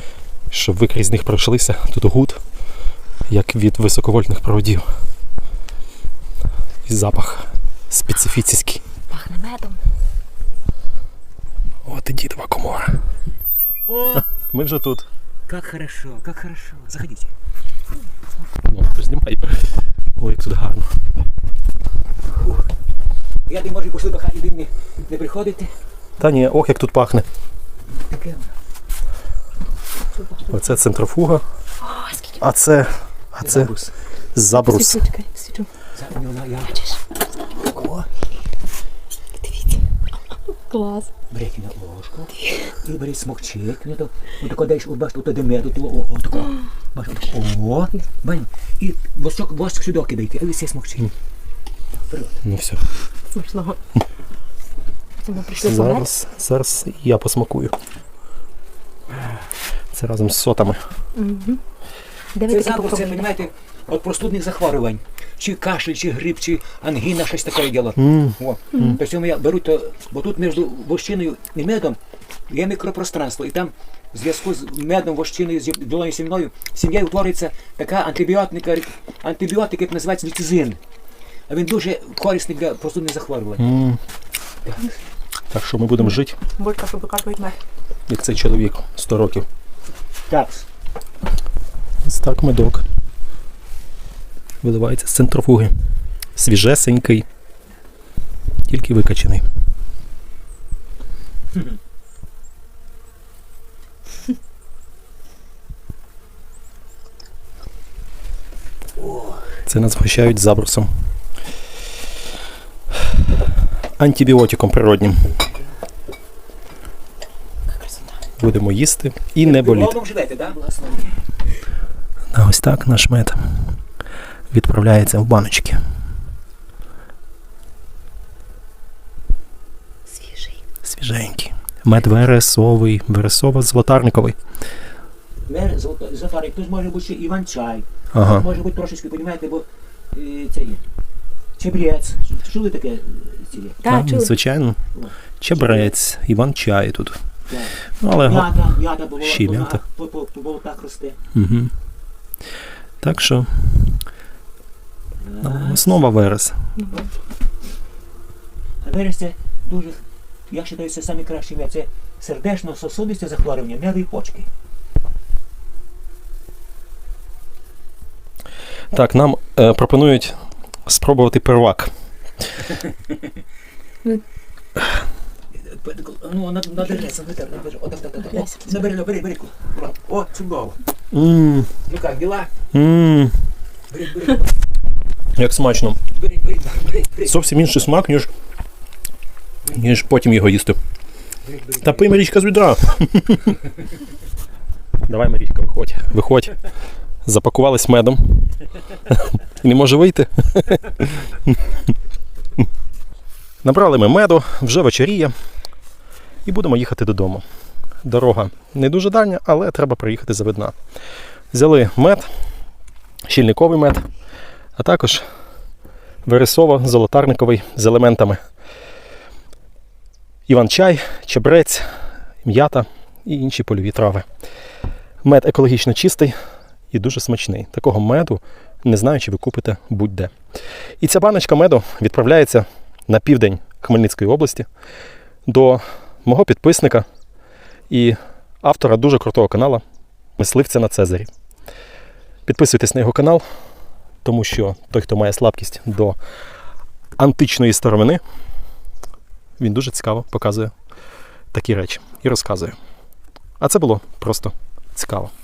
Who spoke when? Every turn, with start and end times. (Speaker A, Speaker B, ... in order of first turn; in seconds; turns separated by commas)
Speaker A: 0.5-2.4, Speaker A: 3.3-4.8, Speaker A: 6.9-8.8, Speaker B: 9.1-9.8, Speaker A: 11.8-13.0, Speaker C: 13.9-14.2, Speaker A: 14.2-15.1, Speaker C: 15.5-17.3, Speaker A: 18.6-21.0, Speaker C: 22.4-22.6, Speaker C: 23.5-25.7, Speaker A: 26.2-27.3, Speaker C: 28.1-28.5, Speaker B: 30.2-30.5, Speaker A: 30.5-31.4, Speaker B: 31.8-32.4, Speaker A: 32.4-33.7, Speaker C: 33.4-33.9, Speaker A: 34.3-35.1, Speaker B: 34.6-35.7, Speaker C: 35.9-37.0, Speaker C: 37.6-38.1, Speaker B: 39.4-39.8, Speaker B: 40.5-41.1, Speaker C: 41.3-51.1, Speaker C: 52.1-52.4, Speaker A: 52.5-52.8, Speaker B: 53.3-53.8, Speaker B: 55.3-56.1, Speaker A: 55.6-57.8, Speaker A: 59.9-60.8, Speaker B: 61.1-61.6, Speaker B: 62.4-63.2, Speaker C: 62.5-80.8, Speaker A: 68.0-68.4, Speaker B: 68.7-69.0, Speaker C: 81.5-83.6, Speaker A: 83.6-84.0, Speaker A: 85.5-86.4, Speaker B: 86.5-87.6, Speaker A: 88.1-89.5, Speaker C: 90.3-90.7, Speaker A: 92.0-92.8, Speaker A: 94.6-95.7, Speaker A: 96.4-97.3, Speaker A: 98.7-99.5, Speaker A: 109.7-110.9, Speaker A: 114.0-115.3, Speaker A: 118.4-120.0, Speaker C: 119.4-121.2, Speaker A: 122.3-123.8, Speaker A: 124.5-125.8, Speaker A: 130.8-134.4, Speaker C: 135.5-140.8, Speaker A: 138.1-138.4, Speaker C: 141.6-143.8, Speaker B: 143.8-144.3, Speaker A: 143.9-144.8, Speaker C: 144.9-145.9, Speaker A: 145.4-147.2, Speaker C: 147.5-151.2, Speaker A: 148.0-148.6, Speaker A: 149.2-149.8, Speaker A: 151.3-151.7, Speaker A: 153.0-154.0, Speaker C: 155.2-156.0, Speaker A: 155.4-156.7, Speaker C: 158.8-164.5, Speaker A: 168.9-171.9, Speaker C: 175.6-180.8, Speaker A: 181.1-181.7, Speaker C: 181.8-182.5, Speaker A: 182.7-183.4, Speaker C: 183.9-184.5, Speaker A: 185.3-186.0, Speaker C: 186.1-187.4, Speaker A: 187.2-188.3, Speaker A: 189.7-190.8, Speaker C: 191.4-192.2, Speaker A: 191.8-193.6, Speaker A: 195.1-196.6, Speaker A: 197.2-198.6, Speaker A: 199.1-201.6, Speaker A: 203.6-205.3, Speaker A: 206.4-207.4, Speaker A: 208.0-210.8, Speaker A: 211.5-212.3, Speaker A: 213.2-214.1, Speaker A: 214.8-215.2, Speaker A: 216.2-218.4, Speaker A: 220.5-221.9, Speaker A: 222.4-224.2, Speaker A: 225.2-226.3, Speaker A: 226.9-230.3, Speaker A: 231.0-234.7, Speaker A: 235.5-237.1, Speaker A: 237.9-239.8, Speaker A: 240.4-241.3, Speaker A: 242.5-243.4, Speaker A: 244.2-246.2, Speaker A: 247.2-248.2, Speaker A: 249.6-250.7, Speaker A: 251.5-252.8, Speaker A: 253.6-255.3